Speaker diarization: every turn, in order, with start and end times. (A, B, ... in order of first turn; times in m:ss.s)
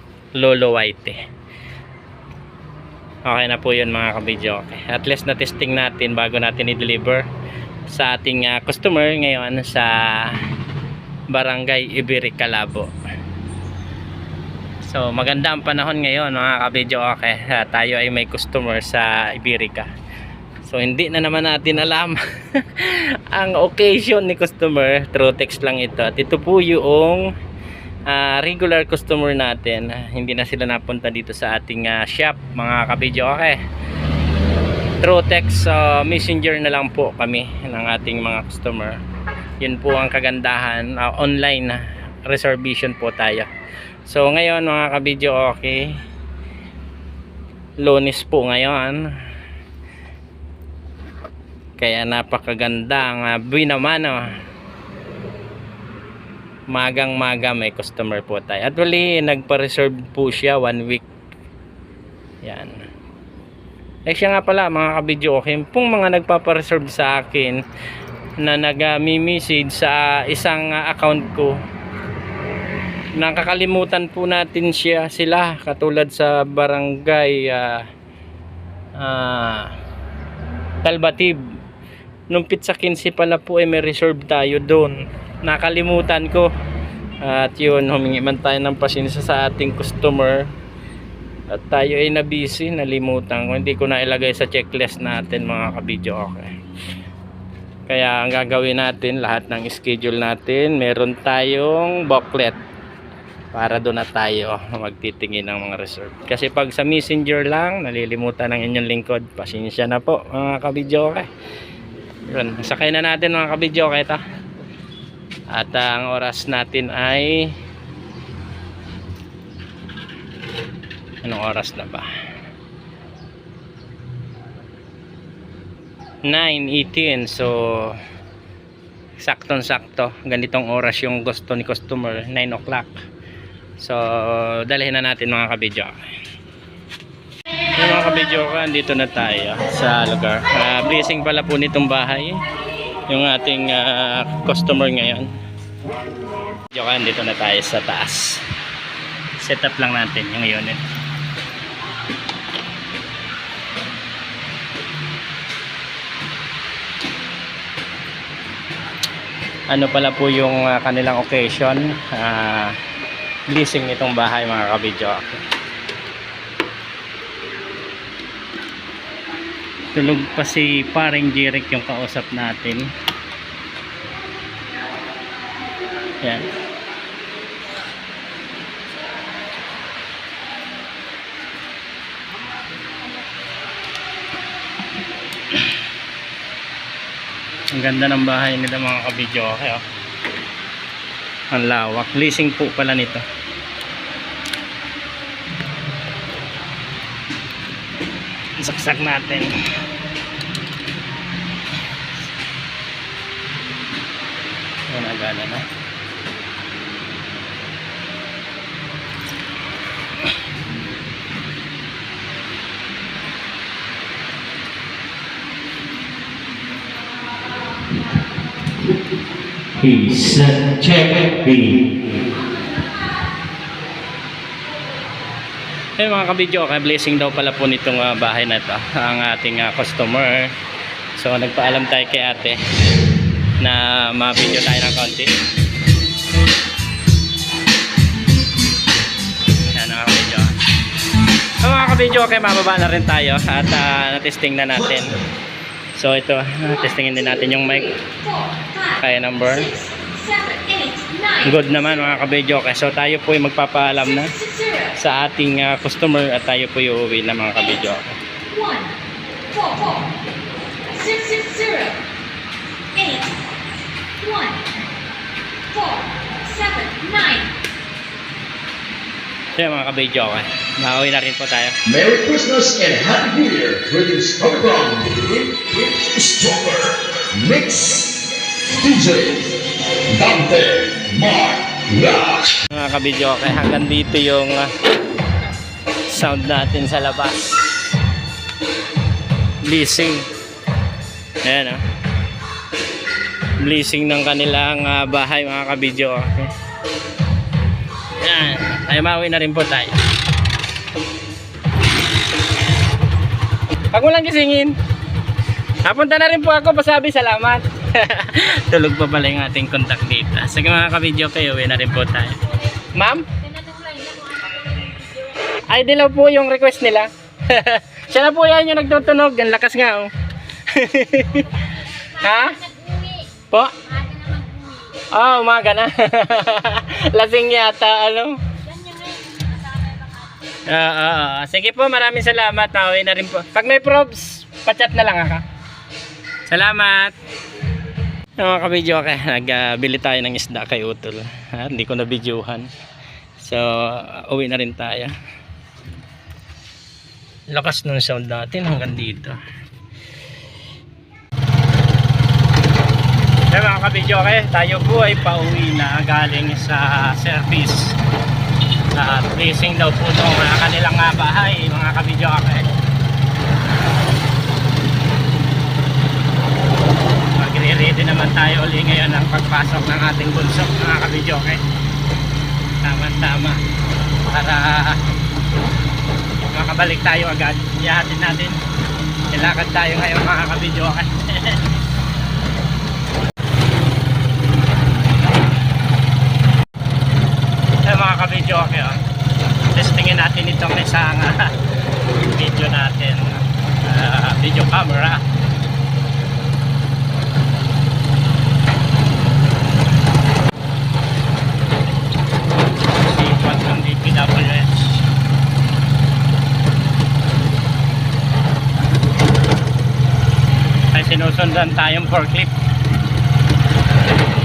0:00.4-0:01.2 A
0:03.2-0:07.2 A
0:07.9-0:10.4 A
0:11.3-0:12.9 A
0:14.8-0:19.9 A
0:20.6-0:27.3 A
0:28.1-0:33.6 A
0:35.0-0:39.0 A
0:39.6-0:43.5 A
0:44.1-0:45.9 A
0:47.8-0:49.0 A
0:51.8-0:54.2 A
0:56.7-1:01.0 A
1:02.4-1:02.8 A
1:04.0-1:07.6 A
1:08.4-1:11.5 A
1:13.2-1:17.8 A
1:19.0-1:19.7 A
1:20.8-1:21.4 A
1:22.3-1:26.5 A
1:27.2-1:30.5 A
1:31.5-1:36.5 A
1:37.9-1:42.6 A
1:43.5-1:51.3 A
1:52.3-1:54.2 A
1:55.5-1:57.5 A
2:01.2-2:02.1 A
2:06.3-2:08.0 A
2:09.2-2:12.9 A
2:13.8-2:15.9 A
2:17.8-2:22.4 A
2:23.1-2:25.3 A
2:26.7-2:28.4 A
2:29.4-2:30.8 A
2:39.7-2:42.7 A
2:43.5-2:45.4 A
2:49.9-2:52.9 A
3:07.7-3:09.8 A
3:11.5-3:13.2 A
3:18.6-3:19.5 A
3:24.9-3:25.6 A
3:39.7-3:41.9 A
3:46.0-3:50.5 A
3:51.1-3:52.6 A
3:53.6-3:55.3 A
3:59.7-4:00.5 A
4:01.6-4:05.2 A
4:05.9-4:08.0 A
4:09.0-4:09.8 A
4:10.0-4:11.4 B
4:11.4-4:14.4 A
4:14.9-4:18.2 A
4:18.5-4:18.9 B
4:19.5-4:20.0 B
4:20.9-4:22.0 B
4:22.9-4:23.3 B
4:24.2-4:24.6 B
4:25.7-4:27.5 B
4:29.6-4:31.8 A
4:31.8-4:42.5 C
4:42.7-4:44.7 A
4:46.1-4:47.9 A
4:49.6-4:50.2 A
4:51.4-4:51.8 A
4:53.6-4:56.5 A
4:58.2-5:00.0 A
5:03.9-5:04.7 A
5:05.8-5:13.4 A
5:13.4-5:15.4 B
5:15.5-5:20.1 A
5:20.6-5:22.6 A
5:22.5-5:23.3 B
5:23.5-5:23.8 A
5:23.9-5:25.0 B
5:25.1-5:28.4 A
5:28.6-5:30.3 B
5:30.6-5:35.4 A
5:36.5-5:37.1 A
5:38.4-5:42.7 A
5:43.4-5:45.1 A
5:47.5-5:49.4 A
5:53.5-5:58.0 A
5:58.9-6:02.7 A
6:07.3-6:11.6 A
6:12.8-6:13.6 A
6:14.2-6:15.0 A
6:16.5-6:18.6 A
6:19.3-6:21.6 A
6:27.8-6:29.0 A
6:29.7-6:31.5 A
6:32.0-6:35.2 A
6:43.0-6:45.0 A
6:50.9-6:52.5 A